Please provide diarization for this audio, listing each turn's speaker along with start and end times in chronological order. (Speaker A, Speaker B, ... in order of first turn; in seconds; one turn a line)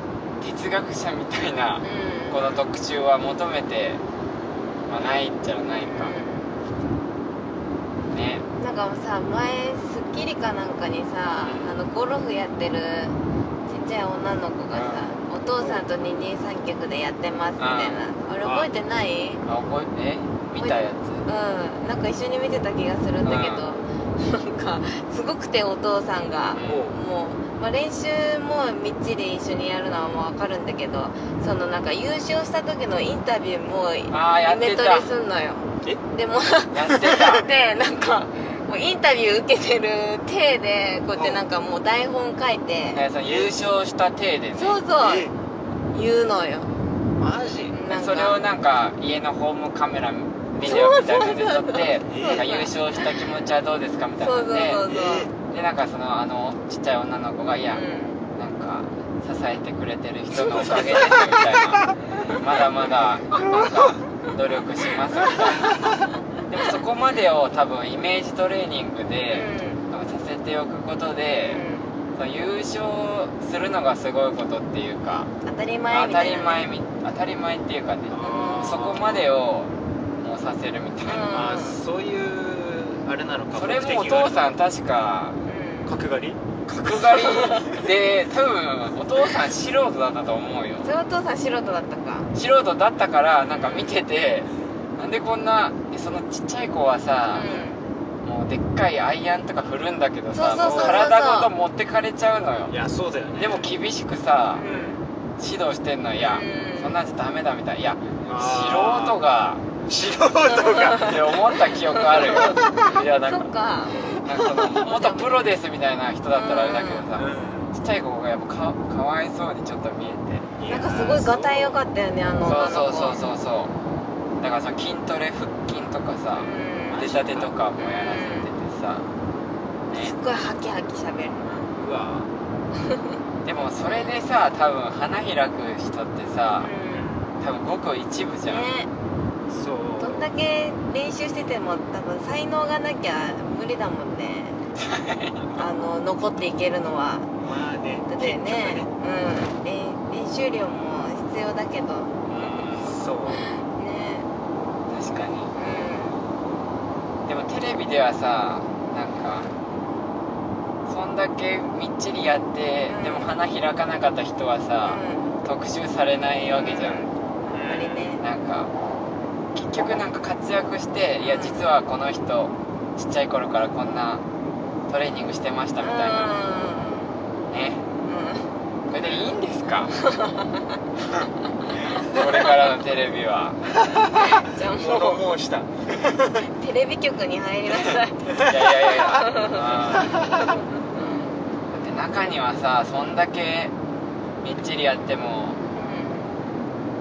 Speaker A: 0.4-4.0
Speaker B: 1.8-2.6
Speaker A: 4.9-6.2
Speaker B: 5.8-6.6
Speaker A: 8.1-8.5
Speaker B: 8.6-19.4
Speaker A: 11.4-11.8
Speaker A: 14.7-15.1
Speaker A: 17.6-18.7
Speaker A: 19.4-21.3
Speaker B: 20.6-43.0
Speaker A: 23.2-23.6
Speaker A: 26.5-26.9
Speaker C: 26.6-27.0
Speaker A: 34.1-35.1
Speaker A: 36.7-37.5
Speaker C: 41.1-41.4
Speaker A: 42.9-44.8
Speaker B: 44.6-45.3
Speaker C: 45.0-45.3
Speaker B: 45.9-46.7
Speaker C: 47.2-47.8
Speaker B: 47.7-48.4
Speaker A: 47.9-54.9
Speaker B: 50.6-53.3
Speaker C: 52.0-52.5
Speaker B: 54.2-55.3
Speaker C: 54.9-55.3
Speaker A: 55.5-65.9
Speaker B: 57.7-58.2
Speaker B: 60.5-61.4
Speaker C: 63.3-64.0
Speaker A: 66.5-71.6
Speaker B: 69.3-69.8
Speaker B: 71.4-71.9
Speaker A: 72.2-75.3
Speaker B: 75.4-76.7
Speaker A: 75.9-81.4
Speaker C: 78.1-79.3
Speaker B: 78.2-79.0
Speaker B: 81.1-81.8
Speaker C: 81.3-84.5
Speaker A: 83.5-85.4
Speaker B: 85.5-85.9
Speaker C: 85.9-87.5
Speaker A: 86.7-90.9
Speaker B: 90.8-92.3
Speaker A: 92.3-97.5
Speaker B: 93.5-93.9
Speaker B: 97.3-97.8
Speaker A: 98.2-102.8
Speaker B: 100.3-101.5
Speaker C: 100.6-101.0
Speaker C: 102.7-103.7
Speaker A: 103.4-104.7
Speaker B: 104.5-105.0
Speaker C: 104.6-105.0
Speaker A: 105.4-109.7
Speaker B: 106.2-107.0
Speaker C: 108.2-109.2
Speaker C: 109.9-111.2
Speaker B: 110.7-111.3
Speaker A: 110.9-113.5
Speaker B: 111.9-115.5
Speaker A: 114.2-120.5
Speaker B: 116.3-117.1
Speaker C: 117.2-117.7
Speaker C: 120.6-121.8
Speaker B: 120.7-123.2
Speaker A: 122.4-123.7
Speaker A: 124.4-129.1
Speaker B: 126.4-127.2
Speaker C: 126.9-127.5
Speaker B: 127.8-128.5
Speaker A: 129.9-130.2
Speaker B: 129.9-131.4
Speaker C: 131.4-132.3
Speaker B: 132.9-133.2
Speaker A: 133.4-136.7
Speaker B: 136.6-137.1
Speaker C: 136.9-137.3
Speaker A: 137.4-138.7
Speaker B: 138.5-138.9
Speaker C: 139.5-140.3
Speaker B: 140.0-144.7
Speaker A: 144.8-145.5
Speaker C: 145.4-145.7
Speaker B: 145.6-147.3
Speaker C: 147.4-148.9
Speaker B: 148.1-152.2
Speaker A: 152.3-153.1
Speaker C: 152.4-153.5
Speaker B: 153.3-154.3
Speaker A: 154.9-155.5
Speaker B: 155.5-156.2
Speaker A: 157.3-159.5
Speaker A: 160.9-167.0
Speaker B: 162.9-163.3
Speaker B: 164.8-165.4
Speaker B: 166.5-168.2
Speaker C: 167.5-168.1
Speaker A: 168.2-168.7
Speaker A: 169.5-174.2
Speaker B: 171.2-171.7
Speaker A: 174.9-176.3
Speaker B: 175.8-177.2
Speaker A: 177.5-177.9
Speaker B: 178.1-178.5
Speaker A: 178.9-179.9
Speaker B: 180.0-180.6
Speaker A: 181.0-181.3
Speaker A: 181.8-184.2
Speaker B: 182.1-182.6
Speaker B: 184.2-185.2
Speaker C: 184.6-186.5
Speaker B: 186.5-188.4
Speaker A: 187.7-190.2
Speaker C: 188.3-189.3
Speaker B: 189.0-189.7
Speaker C: 189.9-190.6
Speaker A: 191.7-193.7
Speaker A: 194.4-195.6
Speaker B: 195.7-196.3